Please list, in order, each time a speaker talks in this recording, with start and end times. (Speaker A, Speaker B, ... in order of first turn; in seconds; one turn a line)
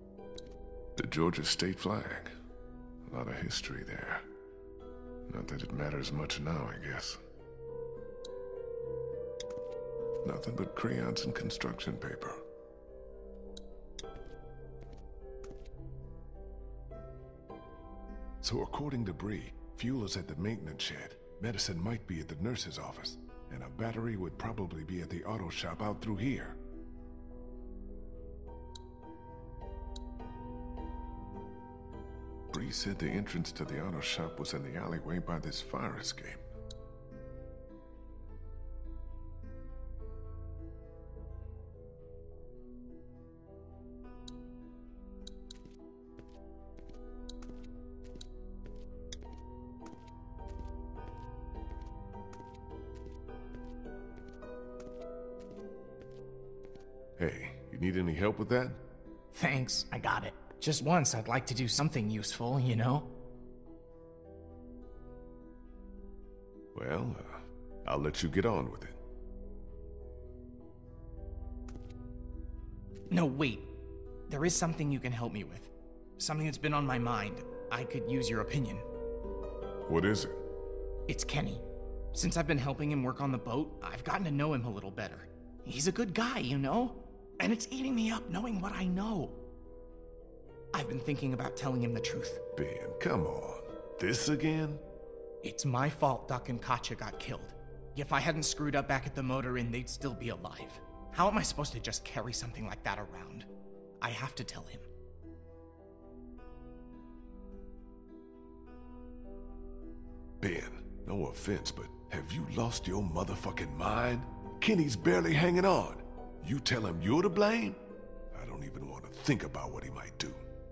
Speaker A: 1.0-2.3
Speaker A: 3.1-4.3
Speaker A: 5.3-7.2
Speaker A: 10.2-12.4
Speaker A: 18.4-26.6
Speaker A: 32.5-36.4
Speaker A: 57.2-58.8
Speaker B: 59.3-63.1
Speaker A: 66.7-69.0
Speaker B: 73.1-73.7
Speaker B: 74.3-78.9
Speaker A: 79.9-80.4
Speaker B: 81.1-89.4
Speaker B: 90.7-92.4
Speaker A: 92.6-94.8
Speaker B: 95.4-103.5
Speaker B: 104.0-104.9
Speaker A: 110.4-117.8
Speaker A: 118.3-120.4